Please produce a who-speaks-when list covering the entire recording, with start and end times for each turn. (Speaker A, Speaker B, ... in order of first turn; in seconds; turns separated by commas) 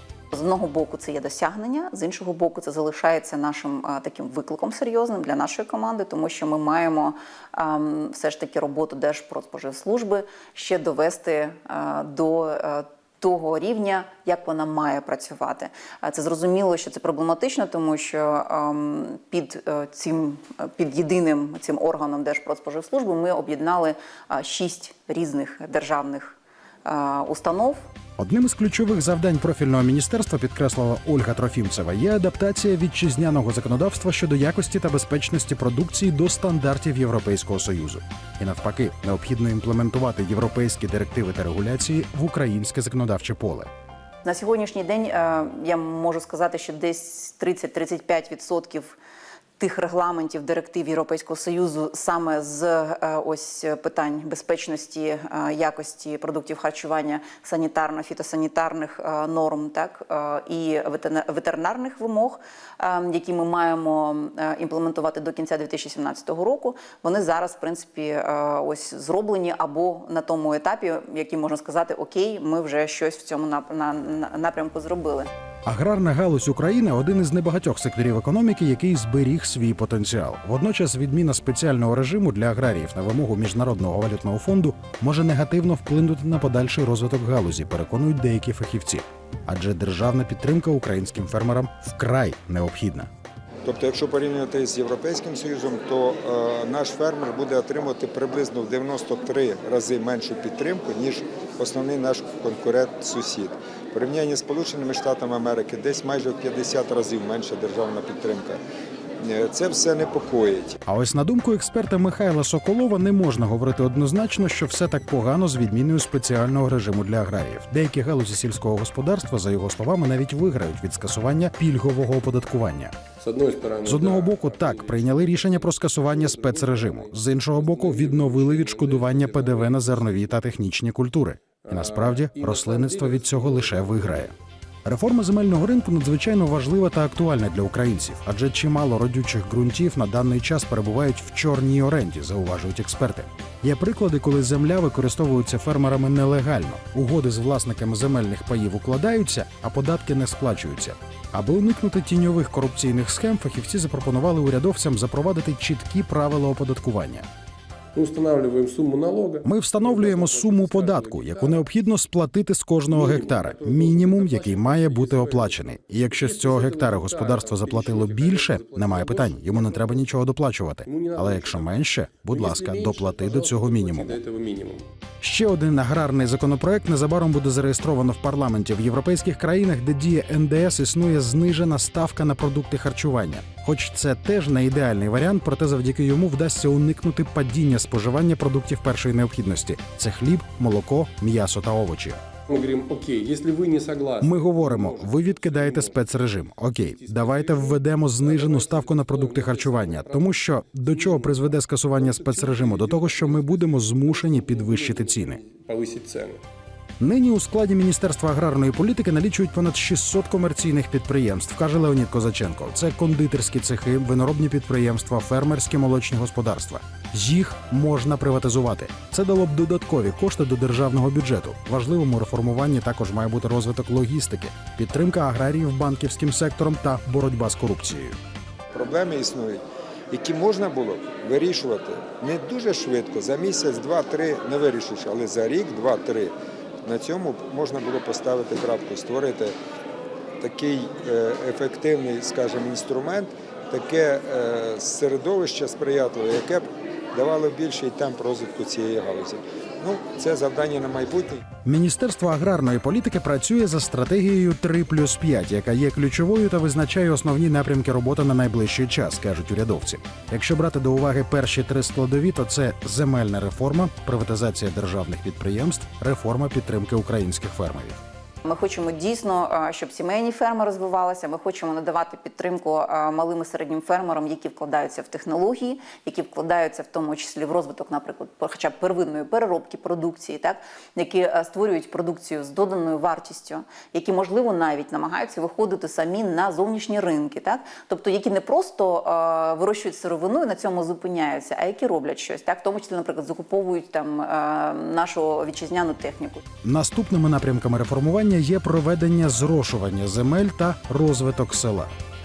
Speaker A: 0.3-27.8, Speaker B: 28.2-43.7, Speaker A: 44.2-49.0, Speaker A: 49.6-75.3, Speaker B: 75.7-93.1, Speaker C: 93.6-108.6, Speaker C: 109.2-110.8, Speaker B: 110.8-123.0, Speaker D: 123.2-130.4, Speaker B: 123.8-157.2, Speaker D: 131.6-134.3, Speaker D: 157.9-161.7, Speaker B: 159.4-174.2, Speaker D: 162.9-170.1, Speaker D: 170.8-171.7, Speaker D: 172.2-174.9, Speaker B: 175.2-192.2, Speaker D: 192.5-196.2, Speaker B: 194.2-205.4, Speaker D: 196.9-206.4, Speaker B: 207.0-228.2, Speaker C: 228.7-239.5, Speaker C: 240.4-251.4, Speaker B: 251.6-268.0, Speaker A: 268.4-296.4, Speaker B: 296.6-301.9